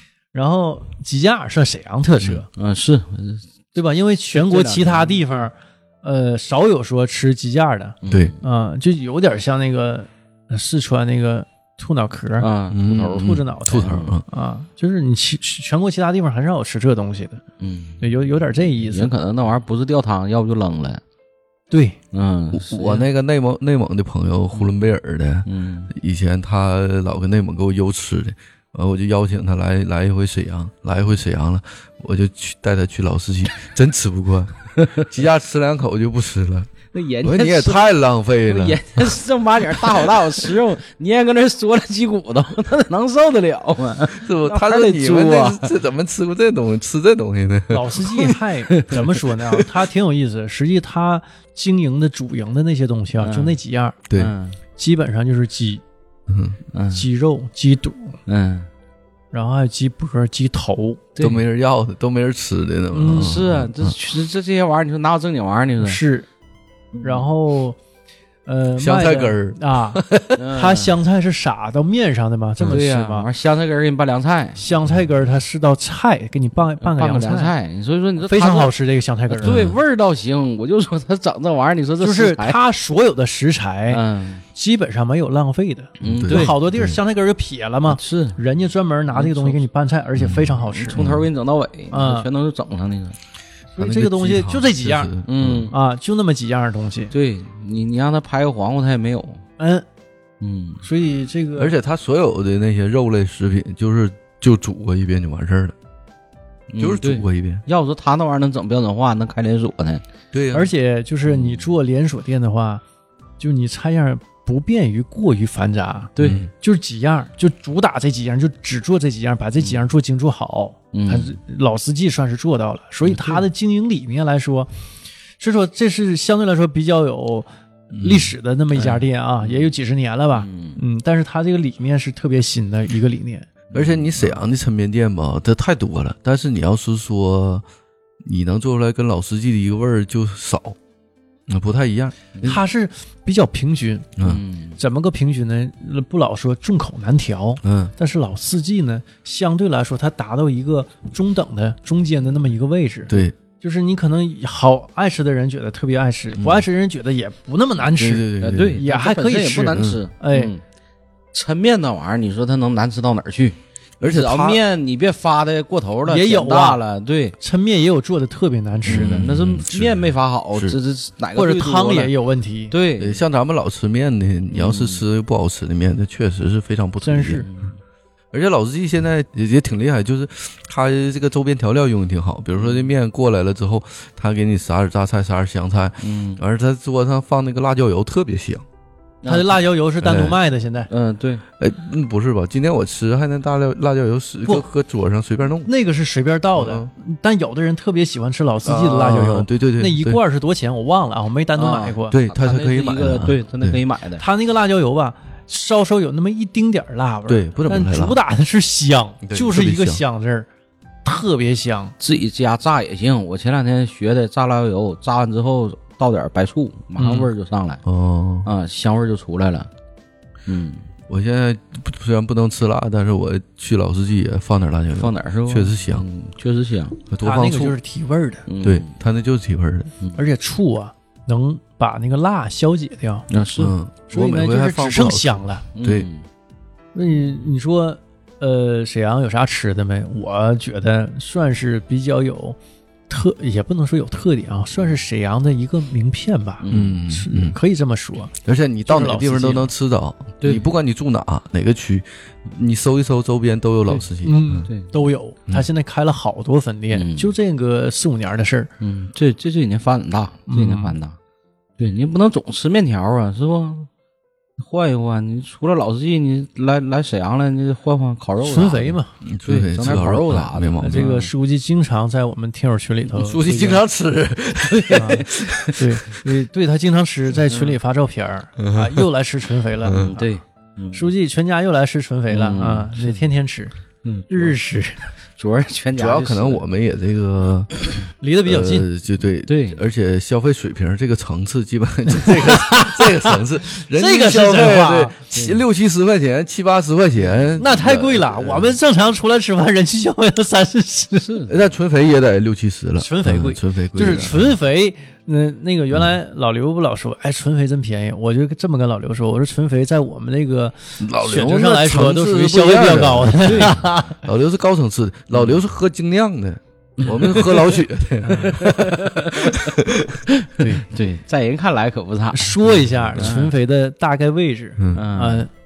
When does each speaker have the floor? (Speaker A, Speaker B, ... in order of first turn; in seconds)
Speaker A: 0.3-2.5, 3.7-12.5, 13.2-17.4, 18.0-19.1, 21.7-22.0, 47.7-54.0, 54.8-55.8, 56.9-58.2, 59.3-61.0, 62.9-63.3, 65.8-66.3, 67.0-67.8, 68.4-70.0, 70.5-73.3, 74.6-77.5, 78.2-79.7, 82.0-84.0, 84.5-91.0, 91.9-92.3, 93.7-95.1, 95.7-97.1, 99.6-99.8, 100.8-101.7, 110.5-112.8, 113.4-124.7, 125.4-127.5, 128.0-133.5, 142.4-144.1, 144.8-160.5, 166.1-166.8, 167.4-169.2, 171.3-172.7, 177.0-177.4, 189.2-190.9, 195.7-202.2, 204.2-210.5, 211.0-211.9, 217.0-217.3, 227.2-228.4, 230.2-233.2, 234.1-235.6, 236.9-242.6, 243.1-248.3, 248.8-249.7, 254.2-258.7, 260.5-260.9, 268.4-269.1, 270.8-273.8, 274.9-280.3, 280.9-283.7, 284.3-285.1, 288.2-288.9, 292.2-295.3, 297.6-301.4, 303.0-314.2, 322.3-325.5
Speaker B: 2.5-3.5, 4.3-5.2, 8.0-8.4, 12.4-14.2, 17.6-18.0, 18.9-21.0, 22.1-23.1, 24.5-24.9, 25.4-25.9, 34.8-35.0, 36.9-37.9, 38.5-45.7, 53.2-53.6, 54.1-54.6, 56.7-57.0, 58.3-58.7, 61.2-61.4, 63.0-66.0, 66.9-67.3, 70.3-71.0, 72.7-74.6, 76.8-78.7, 79.3-82.6, 83.9-84.4, 86.0-86.6, 87.9-88.4, 89.1-89.6, 90.6-93.2, 95.3-95.7, 97.1-99.4, 100.4-100.8, 106.7-110.0, 111.3-111.7, 116.2-116.4, 120.9-121.3, 123.0-123.4, 128.7-129.7, 130.3-130.8, 133.7-134.4, 144.2-144.8, 158.4-160.6, 161.3-167.4, 168.8-172.1, 172.7-173.2, 174.5-175.0, 177.4-177.7, 182.5-182.9, 186.0-186.4, 189.2-189.5, 190.9-191.4, 201.5-204.2, 212.0-217.8, 218.4-219.7, 220.5-220.9, 224.9-227.0, 228.5-228.9, 233.3-233.7, 235.7-236.2, 246.6-247.0, 256.9-257.3, 258.8-261.1, 261.8-263.9, 264.6-271.3, 274.6-275.7, 277.5-277.8, 279.9-281.1, 282.3-283.2, 284.0-284.6, 285.4-286.6, 289.4-289.8, 297.2-297.5, 301.2-301.6, 313.4-314.1, 315.3-315.6, 317.0-317.8, 318.3-319.7, 320.3-323.5, 324.9-325.5
Speaker C: 8.1-8.3, 12.7-14.2, 22.5-36.7, 37.2-39.1, 39.8-40.1, 44.2-48.3, 54.1-54.3, 56.3-56.6, 61.2-63.9, 68.8-70.4, 79.4-79.8, 86.0-87.0, 90.2-91.3, 93.8-95.7, 101.6-105.7, 106.8-107.6, 110.3-110.7, 116.2-116.5, 127.9-128.3, 133.7-137.6, 138.2-140.8, 141.5-142.6, 144.2-144.4, 147.6-147.9, 153.1-153.4, 156.4-156.6, 157.8-158.8, 159.7-160.0, 164.0-164.6, 168.9-170.8, 173.0-177.5, 178.3-188.6, 190.0-190.4, 191.6-195.7, 196.6-196.9, 198.6-200.2, 202.1-203.8, 207.3-208.2, 209.2-210.0, 217.8-218.5, 221.1-226.0, 227.1-227.8, 228.6-229.9, 233.6-236.1, 246.7-247.6, 248.4-254.7, 269.2-271.1, 273.1-275.7, 278.6-279.1, 279.8-280.1, 285.9-287.7, 288.4-298.8, 301.5-304.6, 311.0-320.2, 322.8-323.4, 324.8-325.1